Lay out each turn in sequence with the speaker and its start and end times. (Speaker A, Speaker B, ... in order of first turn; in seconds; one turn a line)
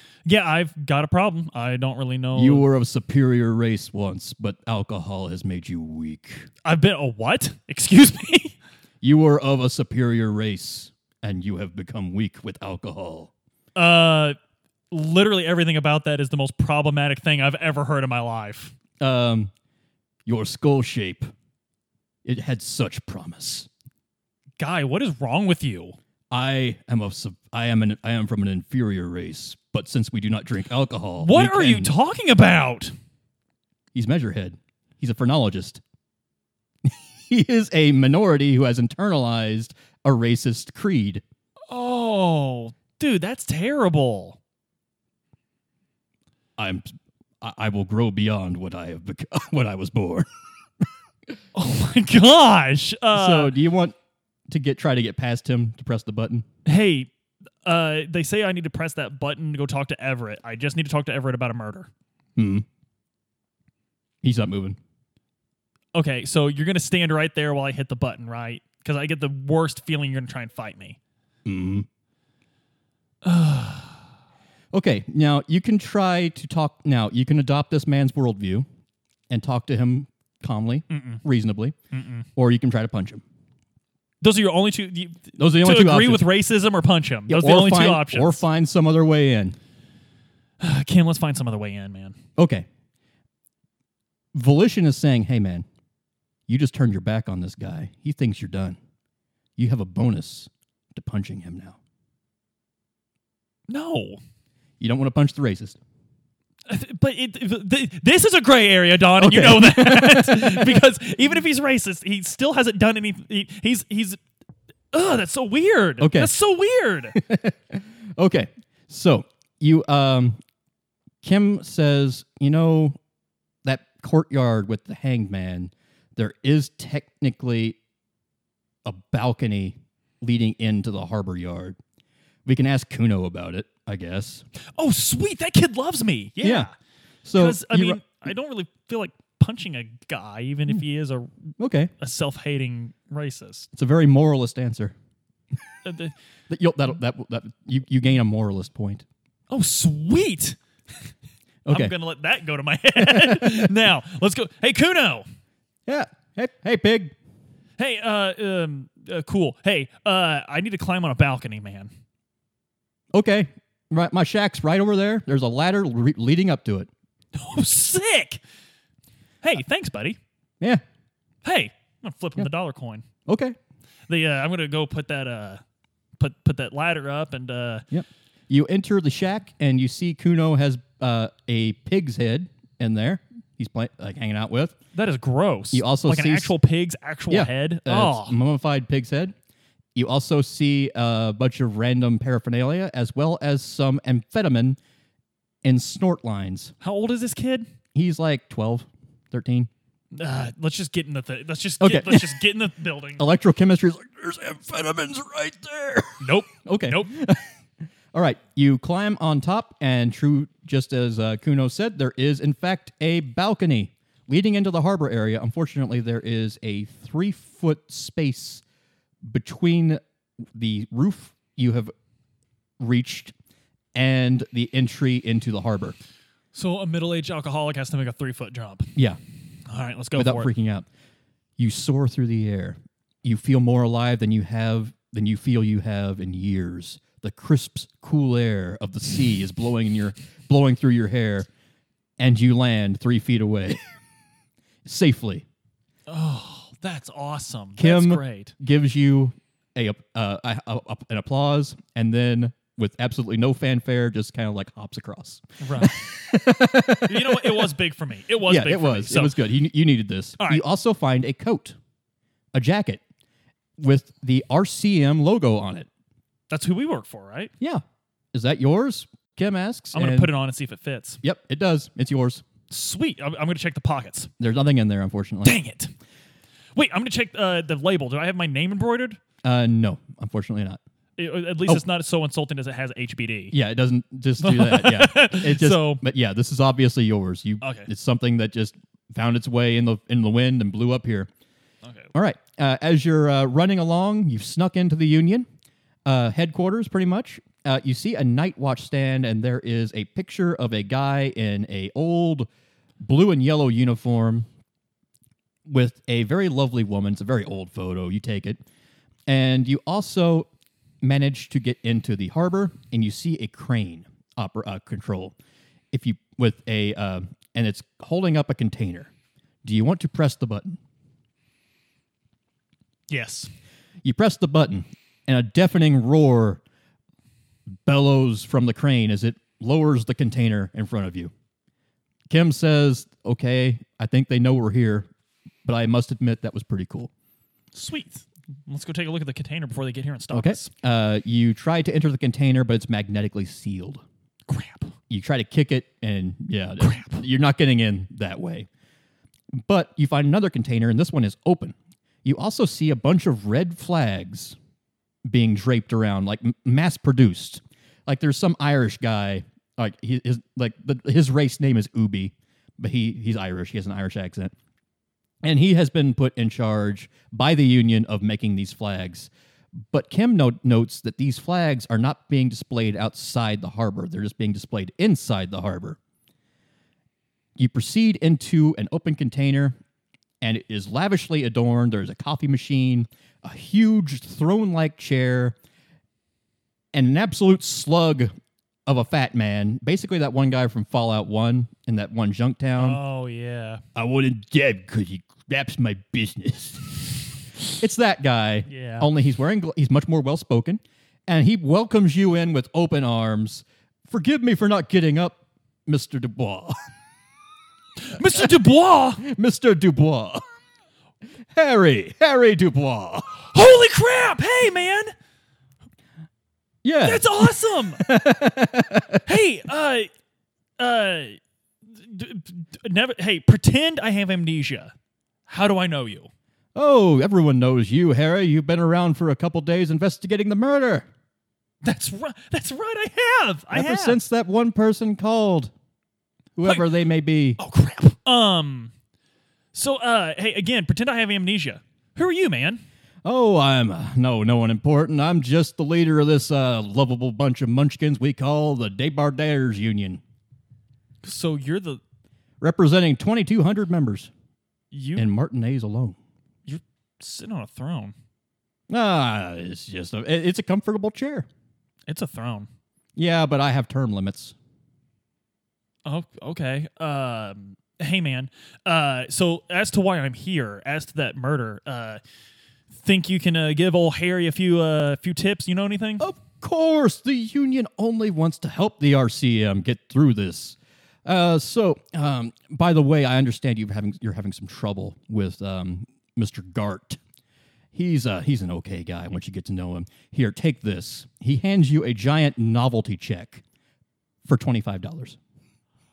Speaker A: 0.2-2.7
Speaker B: 2.3-6.5
Speaker A: 6.6-8.6
Speaker B: 9.0-13.3
Speaker A: 13.7-14.4
Speaker A: 14.9-18.7
Speaker B: 19.0-19.5
Speaker B: 20.2-21.3
Speaker B: 22.2-23.7
Speaker A: 24.6-26.0
Speaker B: 26.3-31.9
Speaker A: 31.2-32.9
Speaker B: 33.9-35.8
Speaker B: 36.8-41.2
Speaker A: 41.7-44.4
Speaker B: 46.6-50.3
Speaker A: 51.5-53.5
Speaker B: 53.1-53.9
Speaker B: 54.5-56.4
Speaker A: 56.6-57.1
Speaker A: 57.6-61.9
Speaker B: 62.4-62.6
Speaker B: 64.2-64.8
Speaker A: 65.9-71.0
Speaker B: 71.4-71.9
Speaker A: 73.2-74.0
Speaker B: 74.7-78.7
Speaker B: 79.3-81.7
Speaker A: 80.9-81.2
Speaker A: 81.9-82.3
Speaker B: 82.3-83.2
Speaker A: 84.2-88.4
Speaker B: 85.4-86.3
Speaker B: 87.3-89.5
Speaker A: 90.6-92.2
Speaker B: 92.4-92.7
Speaker B: 94.3-95.7
Speaker B: 96.5-98.8
Speaker B: 99.6-101.8
Speaker A: 103.7-104.2
Speaker B: 104.8-105.8
Speaker A: 106.7-114.2
Speaker B: 109.2-110.8
Speaker A: 114.9-117.2
Speaker B: 116.0-116.3
Speaker B: 117.1-120.4
Speaker B: 121.2-123.0
Speaker B: 123.6-127.8
Speaker B: 128.8-131.8
Speaker B: 132.4-134.4
Speaker A: 134.8-136.7
Speaker B: 136.4-136.7
Speaker B: 137.2-138.0
Speaker A: 137.3-143.7
Speaker B: 141.6-141.9
Speaker B: 143.7-144.9
Speaker A: 145.8-146.1
Speaker B: 146.5-149.0
Speaker A: 149.5-150.6
Speaker B: 151.7-151.9
Speaker A: 151.7-155.2
Speaker B: 152.9-153.7
Speaker B: 155.8-157.1
Speaker A: 157.8-161.9
Speaker B: 163.1-166.9
Speaker A: 167.3-168.4
Speaker A: 169.4-170.2
Speaker A: 171.4-173.1
Speaker B: 173.3-173.6
Speaker A: 174.1-175.6
Speaker A: 176.2-177.8
Speaker B: 177.9-184.8
Speaker A: 184.9-188.4
Speaker B: 185.7-186.5
Speaker B: 187.3-189.3
Speaker B: 189.9-194.8
Speaker B: 195.6-196.7
Speaker A: 196.8-197.7
Speaker B: 197.9-199.7
Speaker A: 200.1-203.2
Speaker B: 201.8-202.4
Speaker B: 203.2-207.4
Speaker A: 206.2-207.1
Speaker B: 208.1-218.6
Speaker B: 219.2-220.0
Speaker B: 220.5-221.9
Speaker B: 222.8-223.3
Speaker B: 223.9-225.9
Speaker A: 226.5-228.9
Speaker A: 229.7-230.5
Speaker B: 230.1-230.8
Speaker B: 231.6-241.5
Speaker B: 242.2-243.8
Speaker B: 244.8-245.4
Speaker A: 246.1-248.5
Speaker B: 247.8-257.7
Speaker A: 255.6-256.0
Speaker A: 257.0-259.3
Speaker B: 258.5-261.8
Speaker B: 262.5-263.0
Speaker B: 263.8-265.9
Speaker A: 266.5-267.5
Speaker B: 267.6-270.3
Speaker A: 269.9-271.2
Speaker B: 271.2-272.4
Speaker A: 272.7-274.3
Speaker B: 274.4-275.6
Speaker A: 275.4-275.9
Speaker A: 276.7-279.2
Speaker B: 279.4-280.8
Speaker A: 281.2-283.6
Speaker B: 283.5-291.3
Speaker A: 284.4-286.0
Speaker A: 287.6-287.9
Speaker A: 291.8-292.1
Speaker B: 292.1-295.4
Speaker B: 296.1-302.5
Speaker B: 303.0-304.5
Speaker B: 305.6-308.6
Speaker B: 309.3-310.5
Speaker B: 311.0-315.3
Speaker B: 315.9-319.1
Speaker B: 319.6-320.8
Speaker A: 323.1-323.5
Speaker B: 324.0-326.6
Speaker B: 327.8-331.3
Speaker B: 332.3-335.1
Speaker B: 335.6-337.1
Speaker A: 337.7-340.7
Speaker B: 340.3-344.0
Speaker A: 344.5-344.9
Speaker B: 345.1-348.7
Speaker A: 346.8-347.2
Speaker B: 349.5-354.6
Speaker B: 355.3-364.5
Speaker B: 365.4-369.3
Speaker B: 369.9-376.0
Speaker B: 377.6-379.7
Speaker B: 380.4-385.6
Speaker B: 386.9-388.3
Speaker B: 388.9-393.0
Speaker A: 392.8-393.8
Speaker B: 393.9-406.8
Speaker A: 398.7-399.1
Speaker A: 408.0-409.2
Speaker B: 409.2-410.4
Speaker B: 411.5-413.4
Speaker A: 413.5-415.1
Speaker B: 416.8-419.2
Speaker A: 417.0-418.0
Speaker A: 419.2-420.1
Speaker A: 420.8-421.4
Speaker A: 422.0-424.9
Speaker A: 425.5-426.3
Speaker B: 426.7-431.1
Speaker A: 431.8-434.2
Speaker B: 433.7-435.7
Speaker B: 436.6-437.6
Speaker A: 436.6-436.9
Speaker A: 437.6-438.9
Speaker A: 439.7-442.8
Speaker B: 443.2-450.2
Speaker A: 451.2-452.0
Speaker B: 452.6-454.3
Speaker A: 454.9-455.3
Speaker B: 455.1-456.2
Speaker A: 456.7-458.1
Speaker B: 458.9-461.5
Speaker A: 462.1-462.7
Speaker B: 463.1-464.5
Speaker A: 466.0-472.2
Speaker A: 472.9-476.2
Speaker B: 476.2-487.2
Speaker B: 487.9-493.6
Speaker B: 494.4-495.4